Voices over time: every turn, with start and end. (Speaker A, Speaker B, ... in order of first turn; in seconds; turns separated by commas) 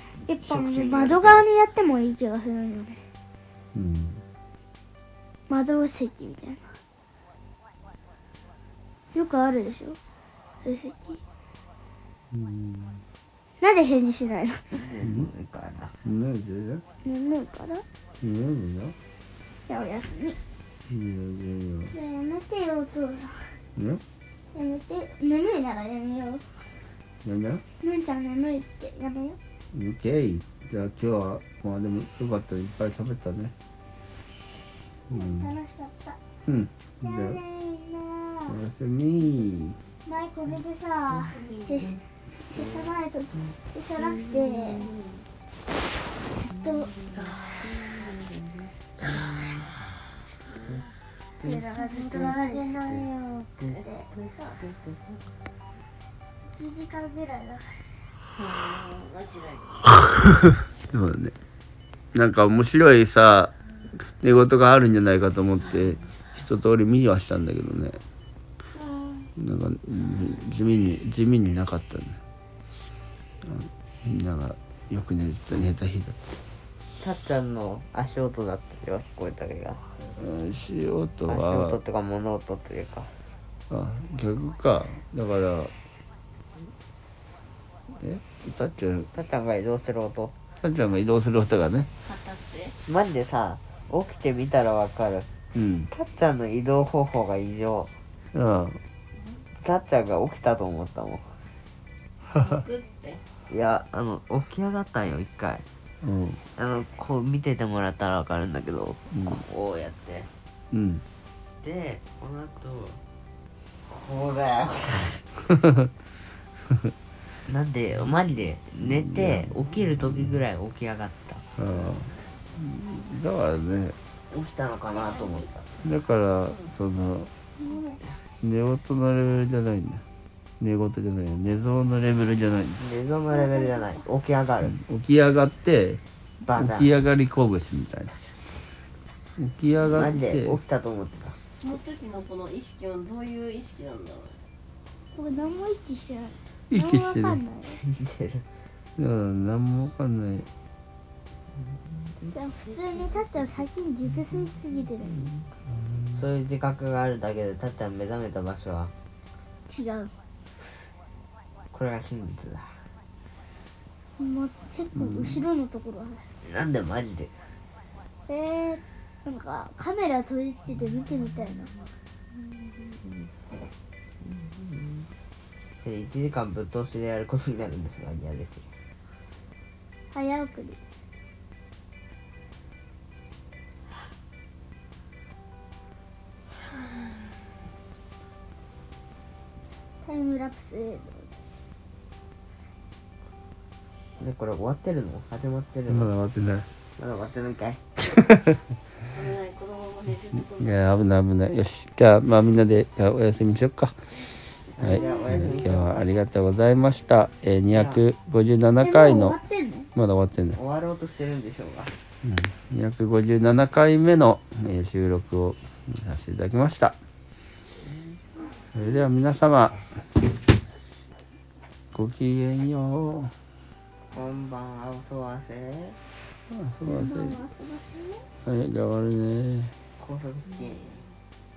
Speaker A: 0.2-1.4, Speaker B: 0.3-3.0, Speaker C: 3.7-4.2, Speaker B: 5.5-6.8, Speaker B: 9.1-10.0, Speaker B: 10.6-11.2, Speaker C: 12.3-13.0, Speaker B: 13.6-14.7, Speaker A: 14.7-15.9, Speaker C: 15.0-15.3, Speaker C: 16.0-16.8, Speaker B: 17.0-17.8, Speaker C: 18.2-18.9, Speaker B: 19.7-20.4, Speaker C: 20.9-21.9, Speaker B: 21.9-23.6, Speaker C: 23.8-24.0, Speaker B: 24.5-26.4, Speaker C: 27.2-27.6, Speaker B: 27.8-29.4, Speaker C: 29.7-33.5, Speaker C: 35.1-35.5, Speaker B: 35.1-36.2, Speaker C: 36.5-37.4, Speaker B: 37.0-38.6, Speaker C: 38.5-39.8, Speaker B: 40.0-44.9, Speaker D: 41.3-41.9, Speaker B: 46.3-46.9, Speaker A: 47.0-49.7, Speaker D: 47.1-48.1, Speaker D: 50.5-50.8, Speaker B: 51.4-52.9, Speaker D: 51.7-53.8, Speaker A: 53.6-55.2, Speaker B: 53.8-54.6, Speaker B: 56.4-58.0, Speaker D: 58.4-59.9, Speaker C: 60.9-61.3, Speaker C: 62.1-68.0, Speaker B: 69.0-69.2, Speaker C: 69.3-72.2, Speaker C: 73.4-76.3, Speaker A: 77.0-79.9, Speaker C: 80.0-81.8, Speaker A: 81.3-83.1, Speaker C: 83.7-85.7, Speaker C: 88.0-89.1, Speaker A: 89.1-90.3, Speaker C: 90.6-91.9, Speaker D: 92.0-92.7, Speaker A: 92.8-95.3, Speaker C: 95.5-95.9, Speaker A: 95.9-97.9, Speaker C: 98.3-98.8, Speaker A: 99.6-101.3, Speaker D: 102.3-103.2, Speaker A: 103.5-105.6, Speaker C: 106.0-106.4, Speaker A: 106.5-110.3, Speaker C: 110.7-111.0, Speaker A: 111.6-113.0, Speaker A: 113.9-115.2, Speaker A: 117.5-121.5, Speaker C: 118.8-119.5, Speaker C: 121.6-124.0, Speaker A: 124.3-125.7, Speaker D: 125.0-125.4, Speaker C: 125.8-127.3, Speaker B: 127.6-128.1, Speaker C: 128.4-130.0, Speaker C: 130.6-132.8, Speaker A: 132.8-134.8, Speaker B: 133.3-134.0, Speaker C: 134.7-136.0, Speaker A: 136.4-136.9, Speaker C: 136.5-138.2, Speaker C: 139.4-140.6, Speaker A: 139.8-141.4, Speaker D: 141.5-144.4, Speaker B: 145.1-147.8, Speaker C: 146.7-147.4, Speaker A: 147.6-148.4, Speaker C: 149.0-150.5, Speaker B: 152.3-155.2, Speaker C: 155.9-156.2, Speaker A: 156.1-158.9, Speaker B: 159.7-160.1, Speaker A: 161.7-162.8, Speaker B: 164.2-166.2, Speaker C: 164.9-165.4, Speaker A: 166.4-167.3, Speaker B: 168.3-171.7, Speaker A: 174.2-175.0, Speaker A: 175.8-178.7, Speaker B: 180.1-180.8, Speaker B: 190.0-191.3, Speaker A: 194.2-196.1, Speaker C: 195.9-196.7, Speaker A: 197.0-197.8, Speaker C: 198.2-198.5, Speaker D: 199.1-200.8, Speaker C: 200.4-203.9, Speaker A: 204.7-206.1, Speaker C: 204.8-209.4, Speaker D: 205.0-205.2, Speaker A: 207.7-208.0, Speaker B: 208.8-209.9, Speaker C: 209.9-210.6, Speaker A: 210.5-211.9, Speaker C: 212.2-216.9, Speaker C: 218.7-219.8, Speaker C: 221.9-223.3, Speaker A: 224.1-226.0, Speaker C: 226.5-227.4, Speaker B: 226.8-228.3, Speaker C: 228.4-229.7, Speaker A: 230.0-231.0